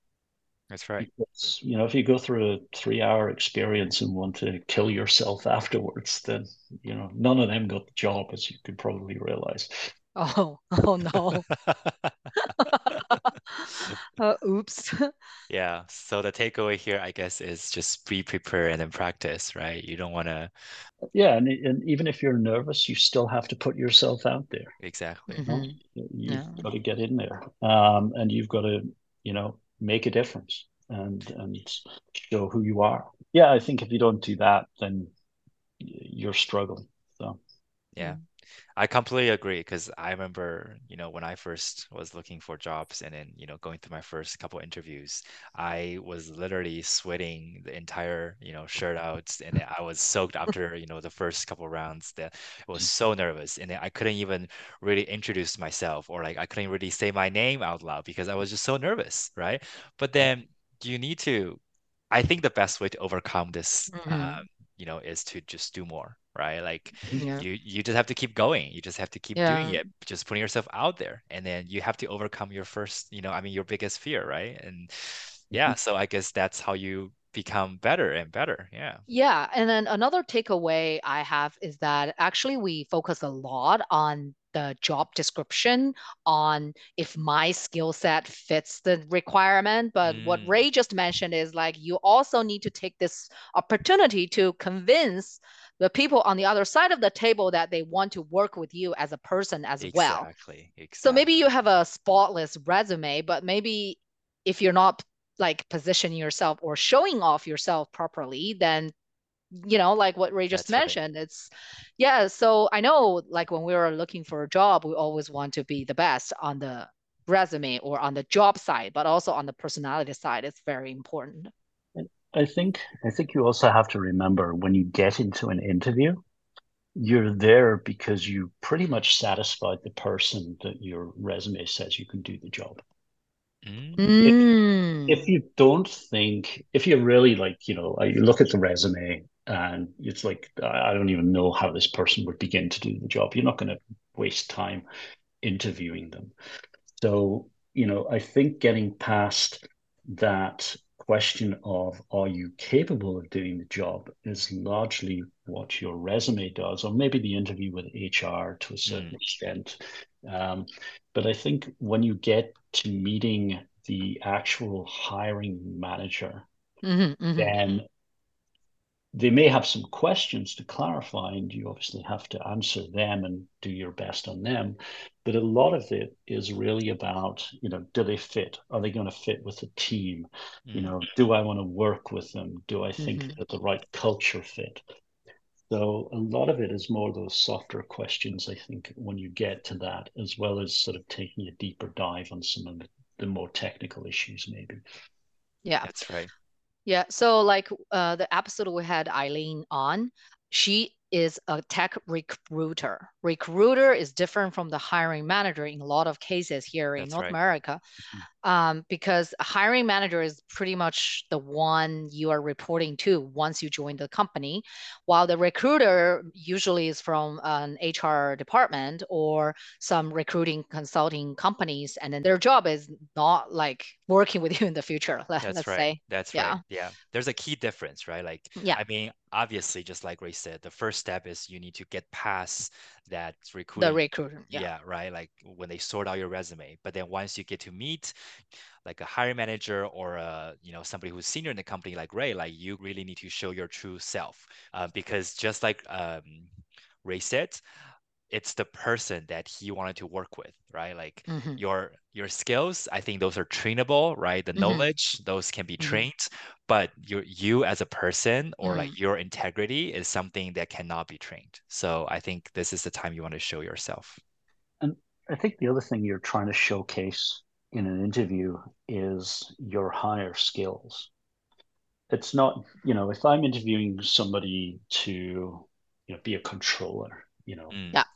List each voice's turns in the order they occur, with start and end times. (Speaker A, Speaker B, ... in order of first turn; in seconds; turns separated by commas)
Speaker A: 0.7-1.1, Speaker B: 1.0-9.9, Speaker C: 10.2-11.4, Speaker A: 11.5-12.1, Speaker C: 12.3-15.1, Speaker A: 15.5-20.5, Speaker B: 21.1-24.7, Speaker A: 24.8-25.5, Speaker C: 25.3-25.7, Speaker B: 25.4-35.1, Speaker C: 26.3-26.6, Speaker B: 35.8-37.4, Speaker A: 38.8-61.6, Speaker A: 62.1-79.0, Speaker C: 63.9-64.4, Speaker C: 67.2-67.4, Speaker C: 69.3-69.8, Speaker C: 79.1-100.3, Speaker A: 90.0-90.6, Speaker A: 99.8-101.3, Speaker C: 101.0-108.9, Speaker C: 109.5-121.5, Speaker A: 110.5-111.0, Speaker B: 121.9-126.2, Speaker B: 127.0-132.8, Speaker A: 133.6-134.0, Speaker C: 134.0-135.2, Speaker B: 135.1-144.8, Speaker B: 145.4-146.3, Speaker B: 147.0-166.4, Speaker A: 158.8-159.2, Speaker C: 166.8-167.6, Speaker B: 167.4-167.8, Speaker B: 169.1-184.8, Speaker A: 180.7-181.0, Speaker C: 183.0-183.3, Speaker B: 185.7-194.8, Speaker A: 195.8-196.3, Speaker C: 196.8-207.8, Speaker A: 207.0-207.3, Speaker C: 208.4-226.6, Speaker A: 225.4-238.3, Speaker C: 233.8-234.7, Speaker A: 238.8-246.5, Speaker A: 247.0-247.6, Speaker A: 248.3-264.2, Speaker C: 251.3-251.6, Speaker C: 254.6-254.8, Speaker C: 255.8-256.1, Speaker C: 258.6-258.9, Speaker B: 264.8-271.1, Speaker B: 272.1-277.8, Speaker A: 277.7-278.0